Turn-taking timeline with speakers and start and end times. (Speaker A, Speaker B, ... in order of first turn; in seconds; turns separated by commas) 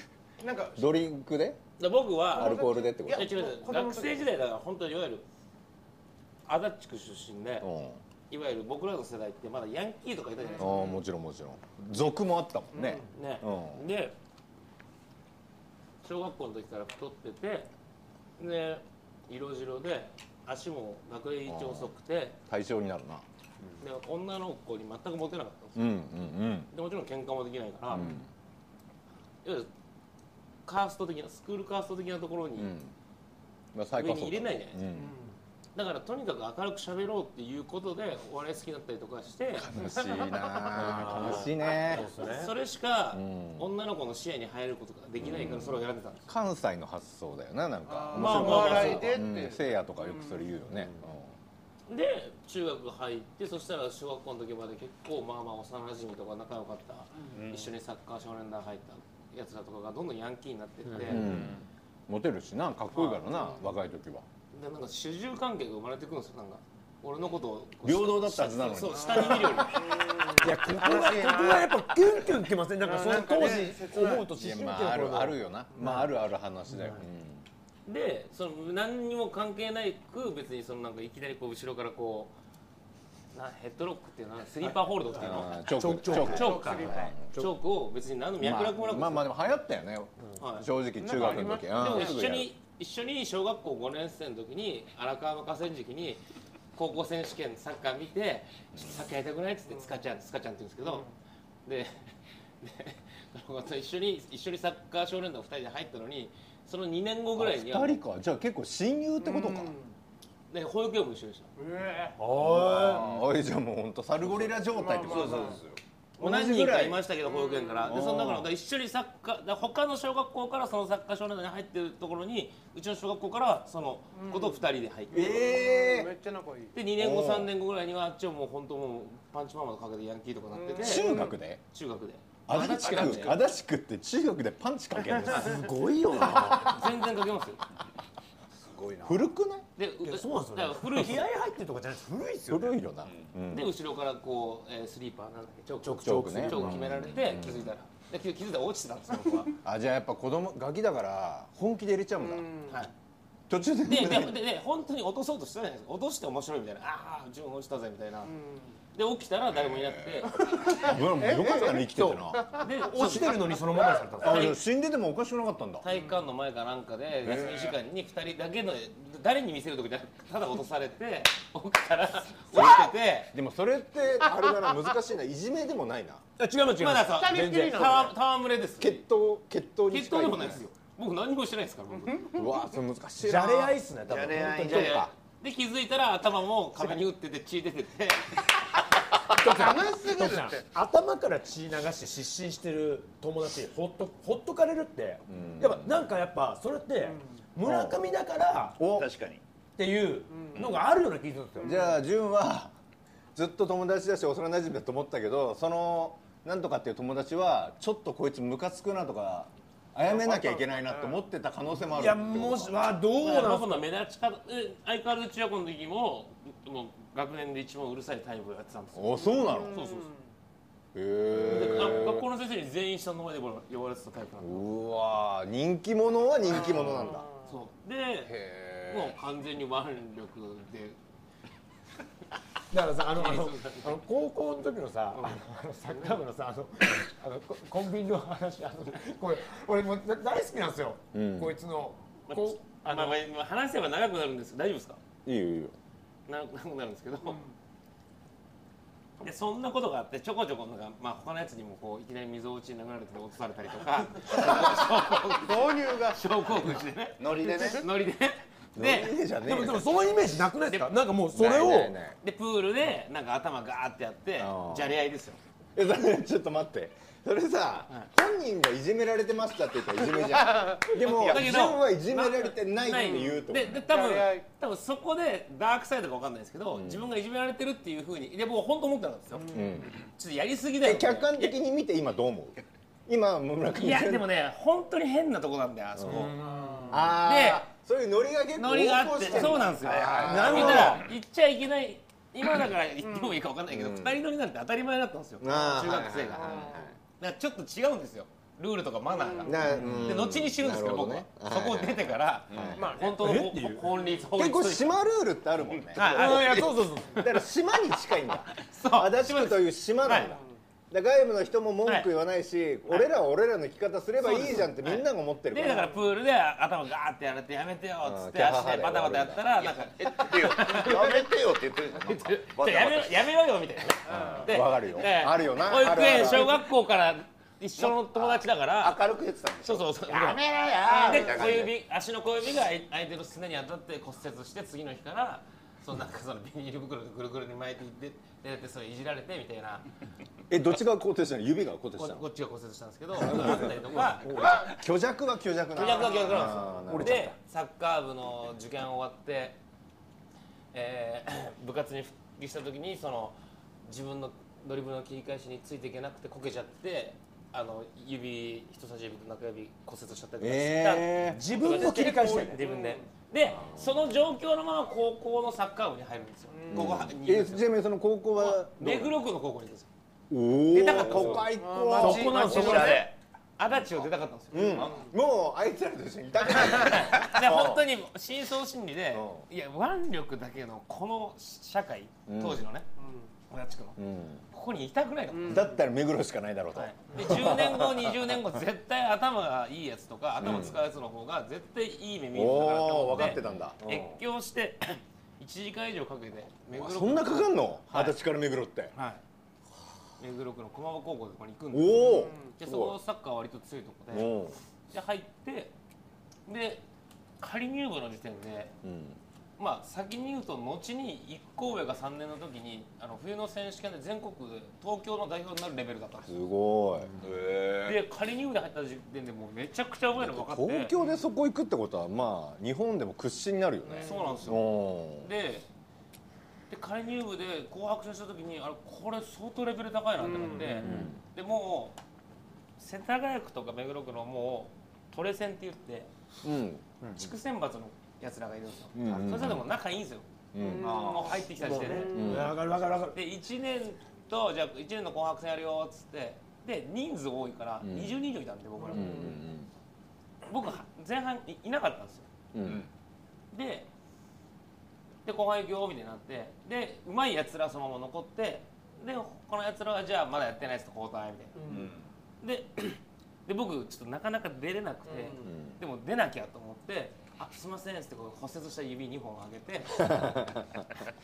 Speaker A: 0.4-0.8, Speaker B: 0.8-1.6, Speaker C: 1.8-5.2, Speaker B: 2.3-3.3, Speaker A: 2.3-4.2, Speaker C: 6.5-7.7, Speaker B: 7.6-8.0, Speaker C: 8.3-10.9, Speaker A: 10.4-11.0, Speaker B: 10.6-13.8, Speaker A: 12.7-13.1, Speaker C: 13.1-14.1, Speaker C: 16.0-17.7, Speaker C: 18.4-22.4, Speaker B: 21.5-21.9, Speaker B: 22.5-23.2, Speaker C: 23.8-25.9, Speaker B: 25.8-26.7, Speaker C: 26.7-28.1, Speaker B: 27.9-28.3, Speaker C: 29.4-29.7, Speaker C: 30.6-32.7, Speaker B: 32.6-32.9, Speaker B: 33.7-35.1, Speaker C: 33.9-34.8, Speaker A: 34.9-35.3, Speaker C: 35.7-39.7, Speaker B: 39.6-42.1, Speaker D: 40.7-42.5, Speaker C: 40.9-46.3, Speaker B: 43.1-43.7, Speaker B: 45.2-51.3, Speaker A: 47.9-50.4, Speaker C: 48.1-49.2, Speaker C: 51.9-61.3, Speaker E: 57.3-57.7, Speaker D: 60.9-61.2, Speaker B: 61.1-64.2, Speaker E: 61.2-61.6, Speaker C: 62.9-63.2, Speaker C: 64.5-69.9, Speaker B: 67.8-69.7, Speaker A: 69.0-71.7, Speaker D: 70.3-76.1, Speaker A: 72.8-74.3, Speaker B: 74.3-77.5, Speaker D: 76.7-77.0, Speaker C: 77.8-82.3, Speaker C: 83.3-89.3, Speaker B: 85.2-87.4, Speaker D: 85.4-86.6, Speaker A: 86.1-87.2, Speaker B: 88.4-92.5, Speaker C: 90.4-96.2, Speaker A: 91.0-92.1, Speaker C: 96.7-101.1, Speaker A: 100.8-101.1, Speaker C: 101.7-108.0, Speaker B: 107.3-109.7, Speaker A: 109.2-109.9, Speaker C: 110.5-111.5, Speaker A: 111.6-112.2, Speaker D: 112.2-113.0, Speaker B: 112.4-115.6, Speaker E: 112.8-113.2, Speaker A: 114.7-115.6, Speaker E: 115.0-115.8, Speaker B: 116.2-117.0, Speaker C: 116.2-125.4, Speaker A: 117.3-117.9, Speaker B: 117.8-118.5, Speaker A: 124.2-124.6, Speaker B: 125.1-126.1, Speaker A: 125.1-126.7, Speaker C: 126.7-133.4, Speaker B: 126.9-127.5, Speaker A: 130.5-131.3, Speaker B: 130.8-131.6, Speaker B: 132.5-135.7, Speaker D: 135.3-136.8, Speaker C: 136.4-137.6, Speaker E: 138.5-139.3, Speaker B: 139.0-139.6, Speaker C: 139.8-141.3, Speaker D: 140.0-142.8, Speaker B: 142.5-143.7, Speaker E: 143.0-143.3, Speaker C: 143.5-149.6, Speaker D: 145.8-147.0, Speaker B: 146.0-147.7, Speaker B: 149.6-152.5, Speaker A: 152.2-152.8, Speaker B: 153.5-154.4, Speaker C: 153.8-158.3, Speaker A: 158.3-158.7, Speaker C: 158.9-160.3, Speaker B: 159.5-162.5, Speaker A: 160.5-162.7, Speaker D: 161.7-162.2, Speaker C: 162.6-163.7, Speaker D: 162.8-164.5, Speaker C: 164.2-164.6, Speaker B: 164.2-165.8, Speaker C: 165.8-173.3, Speaker B: 167.2-167.8, Speaker B: 172.5-176.2, Speaker D: 176.4-178.1, Speaker C: 176.7-179.0, Speaker A: 177.1-178.1, Speaker B: 178.8-180.6, Speaker C: 179.9-182.3, Speaker A: 182.1-182.4, Speaker B: 182.3-183.8, Speaker D: 183.2-185.1, Speaker E: 184.1-185.1, Speaker C: 184.6-188.8, Speaker D: 189.3-198.8, Speaker A: 189.4-190.7, Speaker B: 195.3-195.9, Speaker B: 197.6-198.0, Speaker B: 198.8-199.1, Speaker E: 198.9-199.4, Speaker D: 199.8-201.9, Speaker A: 200.3-200.7, Speaker A: 201.6-201.9, Speaker B: 201.6-202.7, Speaker B: 203.3-212.8, Speaker A: 210.0-211.2, Speaker D: 211.9-213.9, Speaker C: 213.2-220.1, Speaker B: 218.9-219.8, Speaker A: 219.2-220.2, Speaker B: 220.9-222.2, Speaker C: 221.4-224.6, Speaker B: 224.4-227.2, Speaker A: 226.6-227.4, Speaker C: 227.4-231.0, Speaker B: 228.2-229.2, Speaker D: 232.7-243.2, Speaker C: 233.1-234.0, Speaker C: 235.1-236.2, Speaker B: 241.1-241.6, Speaker C: 242.3-245.0, Speaker B: 245.2-245.8, Speaker C: 246.3-247.4, Speaker A: 247.3-247.5, Speaker C: 249.2-259.1, Speaker A: 254.4-254.8, Speaker A: 255.3-256.2, Speaker E: 257.2-257.9, Speaker A: 257.5-257.8, Speaker B: 258.8-259.9, Speaker D: 259.4-261.9, Speaker C: 260.7-261.0, Speaker B: 261.3-262.2, Speaker C: 262.2-265.4, Speaker B: 264.4-265.0, Speaker B: 265.7-273.8, Speaker A: 270.1-270.9, Speaker C: 270.9-281.6, Speaker E: 271.0-271.4, Speaker A: 273.1-274.4, Speaker B: 276.7-277.1, Speaker B: 279.5-280.0, Speaker B: 280.8-284.3, Speaker C: 283.7-286.4, Speaker B: 286.0-286.3, Speaker D: 286.0-287.0, Speaker A: 286.4-287.0, Speaker B: 286.9-291.0, Speaker C: 287.2-287.7, Speaker C: 288.6-305.0, Speaker E: 289.3-291.1, Speaker D: 290.3-291.0, Speaker B: 293.7-294.2, Speaker B: 295.4-296.9, Speaker A: 296.4-296.9, Speaker A: 299.1-299.6, Speaker B: 299.4-302.9, Speaker D: 299.7-300.1, Speaker E: 302.5-302.9, Speaker A: 302.7-303.2, Speaker D: 303.2-303.8, Speaker A: 303.9-304.3, Speaker B: 304.4-310.4, Speaker C: 305.9-307.4, Speaker D: 305.9-307.2, Speaker C: 308.5-310.3, Speaker A: 310.2-310.4, Speaker B: 310.9-315.9, Speaker C: 311.8-312.1, Speaker C: 314.2-321.3, Speaker B: 318.0-319.4, Speaker E: 319.5-323.2, Speaker C: 322.0-329.1, Speaker A: 324.1-324.5, Speaker B: 324.1-326.6, Speaker E: 326.0-326.5, Speaker E: 327.8-331.7, Speaker C: 329.6-339.9, Speaker B: 340.5-342.2, Speaker C: 341.9-344.8, Speaker B: 343.3-343.6, Speaker D: 343.6-344.7, Speaker B: 344.4-347.3, Speaker C: 345.7-349.6, Speaker D: 346.9-347.3, Speaker C: 350.7-367.7, Speaker B: 360.4-361.9, Speaker D: 361.3-362.6, Speaker A: 362.2-363.1, Speaker A: 366.5-367.0, Speaker B: 366.7-369.1, Speaker C: 368.4-369.9, Speaker B: 370.3-372.6, Speaker C: 370.7-374.9, Speaker E: 370.9-371.4, Speaker A: 371.4-372.3, Speaker D: 371.9-373.1, Speaker E: 372.2-373.1, Speaker E: 373.7-374.1, Speaker B: 374.5-377.8, Speaker A: 374.7-375.1, Speaker C: 376.5-382.9, Speaker B: 379.1-379.4, Speaker B: 382.3-382.6, Speaker A: 383.0-383.3, Speaker C: 383.5-384.0, Speaker B: 384.0-384.4, Speaker C: 384.5-385.8, Speaker A: 385.3-385.7, Speaker B: 385.4-388.3, Speaker C: 386.7-398.2, Speaker B: 390.4-390.8, Speaker B: 392.3-394.2, Speaker B: 396.7-398.9, Speaker C: 398.9-399.2, Speaker C: 400.2-404.4, Speaker B: 401.7-403.0, Speaker A: 401.9-402.5, Speaker B: 404.1-404.6, Speaker C: 404.9-405.7, Speaker C: 406.5-406.8, Speaker C: 407.4-408.7, Speaker B: 408.8-409.2, Speaker C: 409.6-416.4, Speaker B: 416.2-417.1, Speaker E: 417.2-418.0, Speaker C: 417.8-420.9, Speaker B: 420.1-425.3, Speaker A: 423.9-424.4, Speaker C: 424.0-425.6, Speaker C: 426.7-431.9, Speaker A: 430.2-430.9, Speaker B: 430.8-431.2, Speaker C: 432.8-436.1, Speaker B: 436.4-436.8, Speaker C: 437.0-440.3, Speaker B: 438.9-439.7, Speaker B: 440.5-441.1, Speaker A: 440.6-442.4, Speaker E: 440.8-441.4, Speaker C: 441.0-442.4, Speaker D: 441.6-443.2, Speaker B: 442.1-442.6, Speaker C: 443.1-449.3, Speaker B: 447.8-448.2, Speaker B: 448.9-449.7, Speaker C: 450.4-452.3, Speaker B: 452.5-452.8, Speaker E: 452.6-452.9, Speaker C: 453.5-453.9, Speaker C: 455.2-461.7, Speaker A: 461.6-461.9, Speaker E: 461.6-462.1, Speaker C: 462.4-470.4, Speaker A: 465.1-465.5, Speaker B: 465.4-465.8, Speaker B: 470.0-470.8